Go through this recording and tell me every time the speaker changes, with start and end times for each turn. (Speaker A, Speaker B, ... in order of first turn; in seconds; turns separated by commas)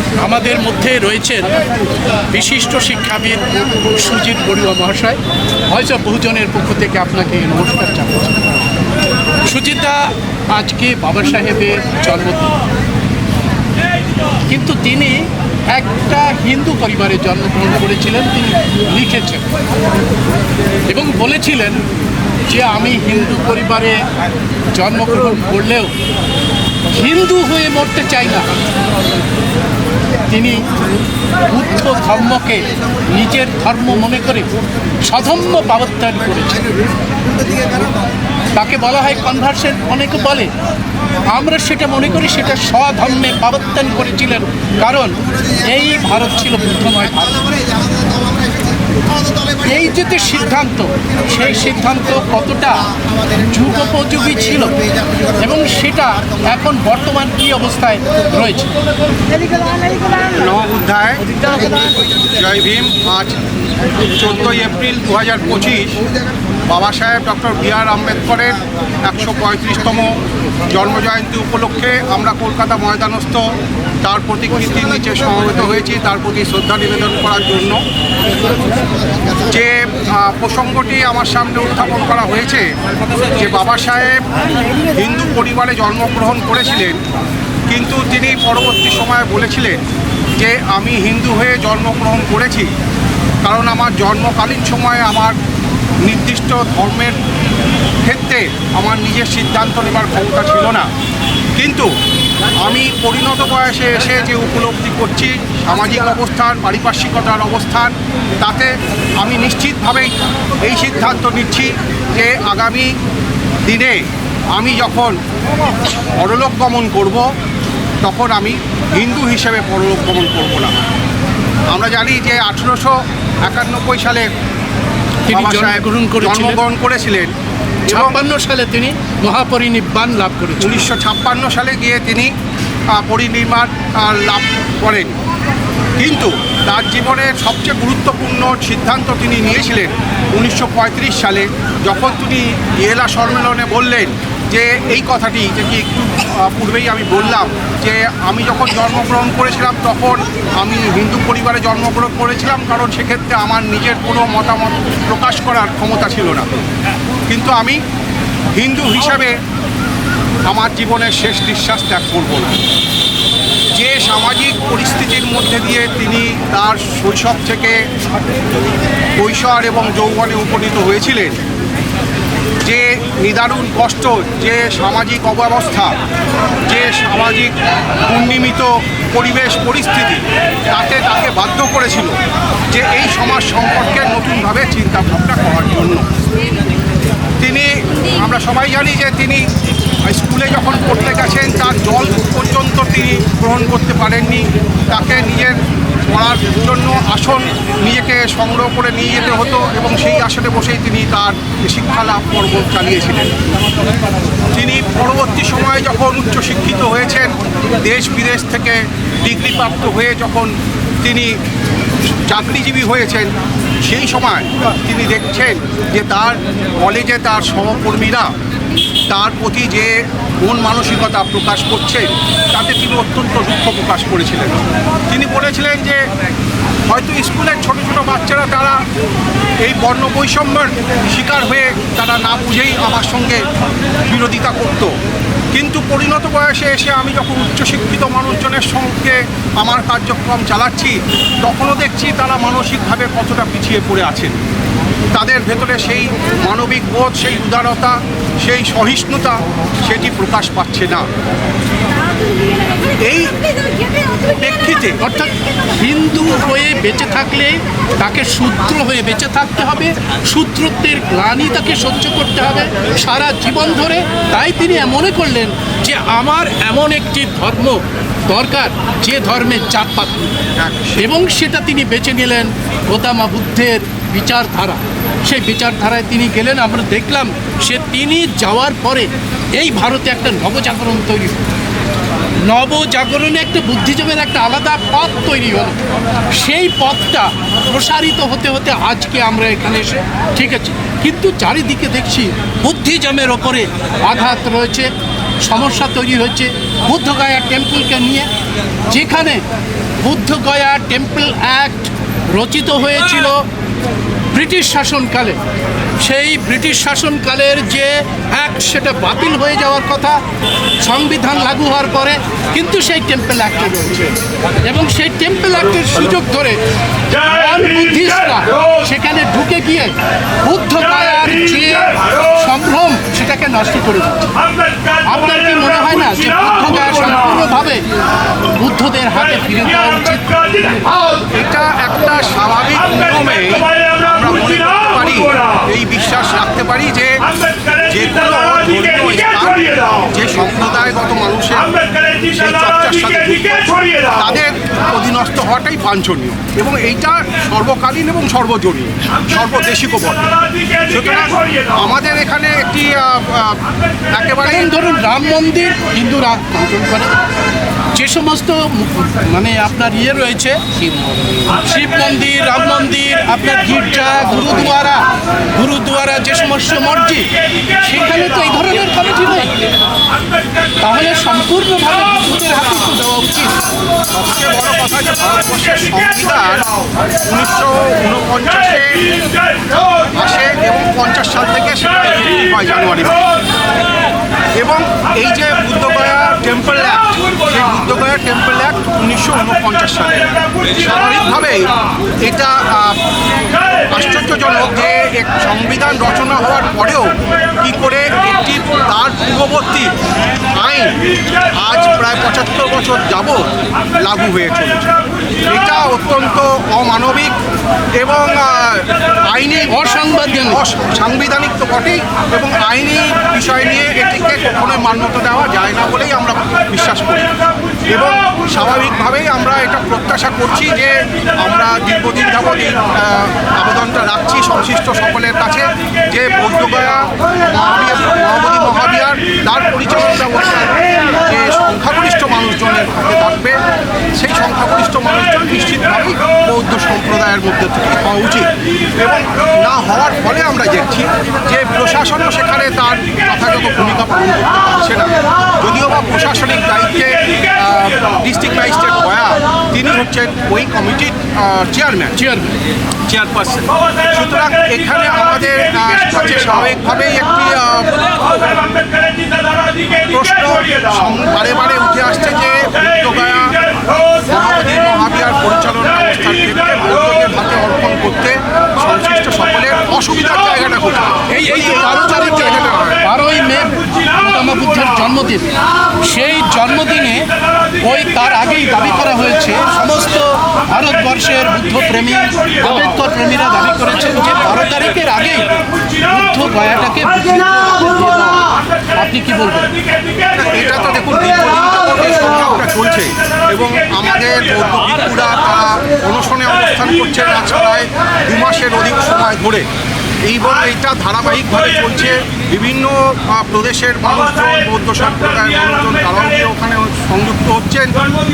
Speaker A: 0.2-1.5, Speaker A: 2.3-8.3, Speaker A: 9.4-12.5, Speaker A: 14.5-19.4, Speaker A: 20.9-21.8, Speaker A: 22.5-24.0, Speaker A: 24.7-25.9, Speaker A: 26.9-28.5, Speaker A: 30.3-30.6, Speaker A: 31.5-34.5, Speaker A: 35.0-36.7, Speaker A: 38.5-40.5, Speaker A: 41.3-47.5, Speaker A: 49.5-54.8, Speaker A: 55.4-58.7, Speaker B: 60.2-63.4, Speaker B: 64.2-66.0, Speaker B: 66.7-70.2, Speaker B: 70.7-73.5, Speaker B: 74.0-77.8, Speaker B: 79.4-82.7, Speaker B: 83.4-84.2, Speaker B: 84.9-87.0, Speaker B: 87.7-89.8, Speaker B: 90.4-92.7, Speaker B: 93.4-95.3, Speaker B: 96.0-97.2, Speaker B: 98.0-100.9, Speaker B: 101.6-101.9, Speaker B: 102.6-110.1, Speaker B: 110.6-112.9, Speaker B: 113.6-114.0, Speaker B: 114.5-115.2, Speaker B: 116.2-117.2, Speaker B: 118.0-120.7, Speaker B: 121.7-124.3, Speaker A: 125.3-126.6, Speaker B: 125.3-127.3, Speaker B: 127.9-128.2, Speaker A: 127.9-130.8, Speaker B: 130.6-132.3, Speaker B: 132.9-135.1, Speaker B: 136.0-156.6, Speaker B: 157.3-157.8, Speaker B: 158.6-159.3, Speaker B: 160.5-162.5, Speaker B: 163.7-167.8, Speaker B: 169.2-171.4, Speaker B: 172.6-175.9, Speaker B: 176.6-177.5, Speaker B: 178.0-182.1, Speaker B: 182.7-186.1, Speaker B: 187.4-189.4, Speaker B: 190.1-203.3, Speaker B: 204.5-210.5, Speaker B: 211.0-211.3, Speaker B: 212.3-213.3, Speaker B: 213.8-218.3, Speaker B: 219.1-226.0, Speaker B: 226.9-228.8, Speaker B: 229.6-233.4, Speaker B: 234.1-234.9, Speaker B: 235.5-244.3, Speaker B: 245.1-251.1, Speaker B: 253.0-253.3, Speaker B: 254.3-255.0, Speaker A: 255.0-270.4, Speaker B: 270.6-271.0, Speaker A: 271.0-281.4, Speaker A: 282.4-285.8, Speaker A: 286.3-294.9, Speaker A: 295.4-298.3, Speaker A: 298.9-299.4, Speaker A: 300.0-303.4, Speaker A: 304.3-305.4, Speaker A: 306.0-310.2, Speaker A: 310.8-314.1, Speaker A: 314.6-316.6, Speaker A: 317.1-324.3, Speaker A: 325.0-327.8, Speaker A: 328.5-330.8, Speaker B: 331.3-341.7, Speaker B: 342.2-350.2, Speaker B: 350.8-353.6, Speaker B: 354.2-354.7, Speaker A: 354.4-357.1, Speaker A: 357.9-360.6, Speaker A: 361.3-369.6, Speaker A: 370.8-373.5, Speaker B: 374.1-376.7, Speaker B: 377.2-379.0, Speaker B: 380.2-383.3, Speaker B: 384.6-393.0, Speaker B: 393.9-399.9, Speaker B: 400.5-400.9, Speaker B: 401.6-404.9, Speaker B: 405.5-407.3, Speaker B: 408.0-417.3, Speaker A: 409.7-410.6, Speaker B: 417.9-433.6, Speaker B: 434.1-452.1, Speaker A: 452.1-452.6, Speaker B: 453.1-458.3, Speaker B: 459.9-463.5, Speaker B: 464.2-473.0, Speaker A: 471.3-475.5, Speaker A: 476.0-489.8, Speaker B: 490.3-499.6, Speaker B: 500.2-508.0